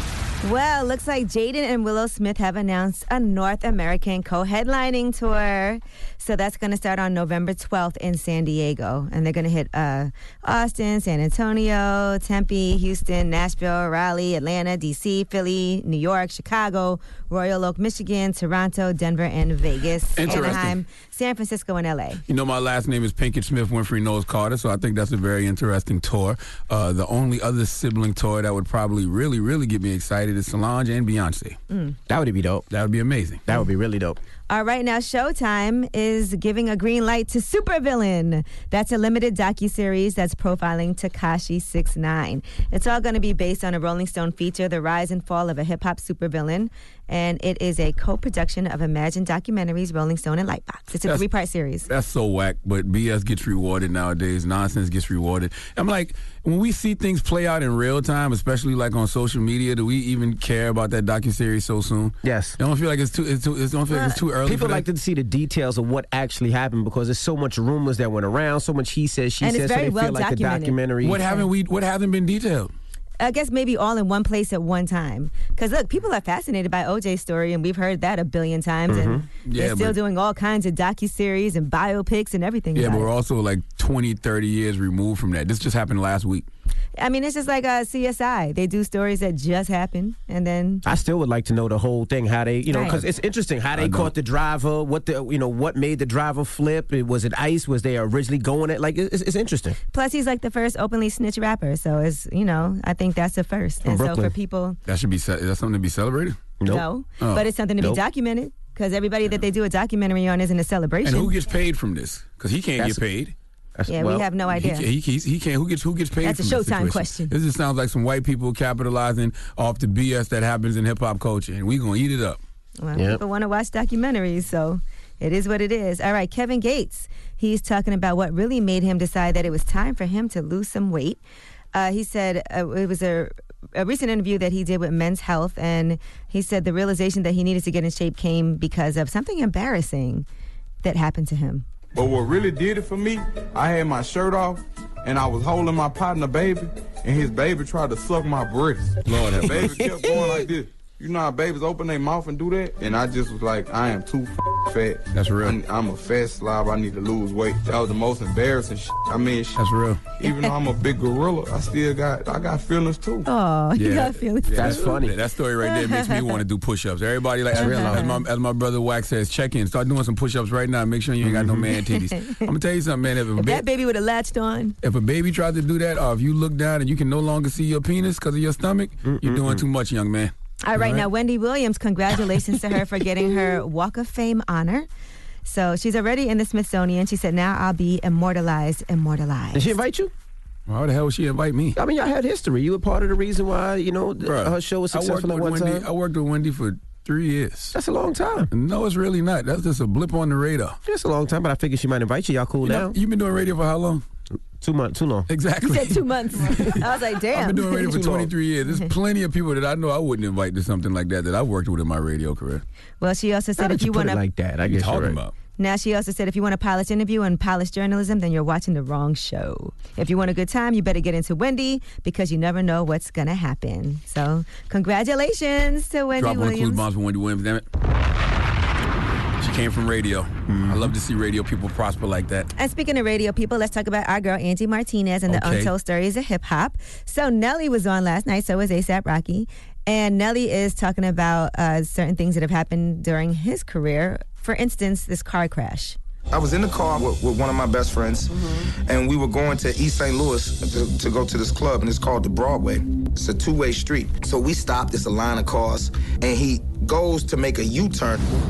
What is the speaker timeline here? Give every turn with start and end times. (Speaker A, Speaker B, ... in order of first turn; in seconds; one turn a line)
Speaker A: 0.4-22.2
Speaker B: 20.2-20.8
Speaker B: 22.3-31.6
Speaker A: 31.7-32.0
Speaker C: 32.1-32.7
Speaker B: 32.7-33.4
Speaker C: 33.5-34.2
Speaker A: 34.5-51.9
Speaker B: 51.9-64.9
Speaker C: 62.2-62.6
Speaker A: 63.9-64.2
Speaker C: 64.4-71.2
Speaker A: 69.4-71.5
Speaker B: 71.0-72.7
Speaker A: 73.2-83.1
Speaker C: 78.9-79.2
Speaker B: 79.5-80.0
Speaker B: 82.8-86.5
Speaker A: 87.0-90.8
Speaker C: 90.8-99.8
Speaker A: 92.7-93.0
Speaker B: 93.7-94.1
Speaker A: 99.9-104.8
Speaker C: 103.8-104.3
Speaker B: 104.9-106.5
Speaker C: 106.6-106.8
Speaker A: 106.7-111.3
Speaker B: 107.2-107.5
Speaker B: 111.0-113.3
Speaker C: 113.8-114.3
Speaker A: 113.9-114.9
Speaker B: 114.5-122.4
Speaker A: 116.2-117.3
Speaker A: 122.8-131.2
Speaker C: 123.0-123.2
Speaker A: 131.7-140.3
Speaker A: 140.8-141.7
Speaker D: 142.0-149.0
Speaker B: 149.1-149.9
Speaker C: 149.2-150.5
Speaker D: 149.5-159.6
Speaker B: 155.1-155.6
Speaker B: 159.6-160.1
Speaker D: 160.2-163.3
Speaker A: 160.3-160.5
Speaker A: 163.2-164.9
Speaker B: 163.8-173.7
Speaker C: 164.5-165.2
Speaker A: 165.7-166.3
Speaker C: 167.5-168.1
Speaker A: 167.6-168.2
Speaker C: 171.2-171.7
Speaker A: 171.7-172.4
Speaker A: 173.4-174.8
Speaker B: 174.8-181.1
Speaker C: 179.1-179.6
Speaker A: 180.7-184.9
Speaker A: 185.4-189.8
Speaker C: 189.5-190.1
Speaker B: 190.7-191.8
Speaker C: 191.8-195.9
Speaker B: 194.2-197.8
Speaker C: 197.7-198.5
Speaker B: 198.5-200.8
Speaker C: 200.8-202.9
Speaker B: 202.6-204.0
Speaker C: 204.6-205.3
Speaker B: 205.3-212.6
Speaker A: 205.6-207.8
Speaker C: 207.7-208.3
Speaker A: 213.0-214.2
Speaker C: 213.6-215.2
Speaker B: 214.7-215.3
Speaker A: 215.6-226.8
Speaker B: 226.2-227.7
Speaker B: 229.4-232.5
Speaker C: 230.5-230.9
Speaker A: 232.6-246.0
Speaker B: 235.3-235.7
Speaker E: 246.3-248.3
Speaker E: 248.9-258.2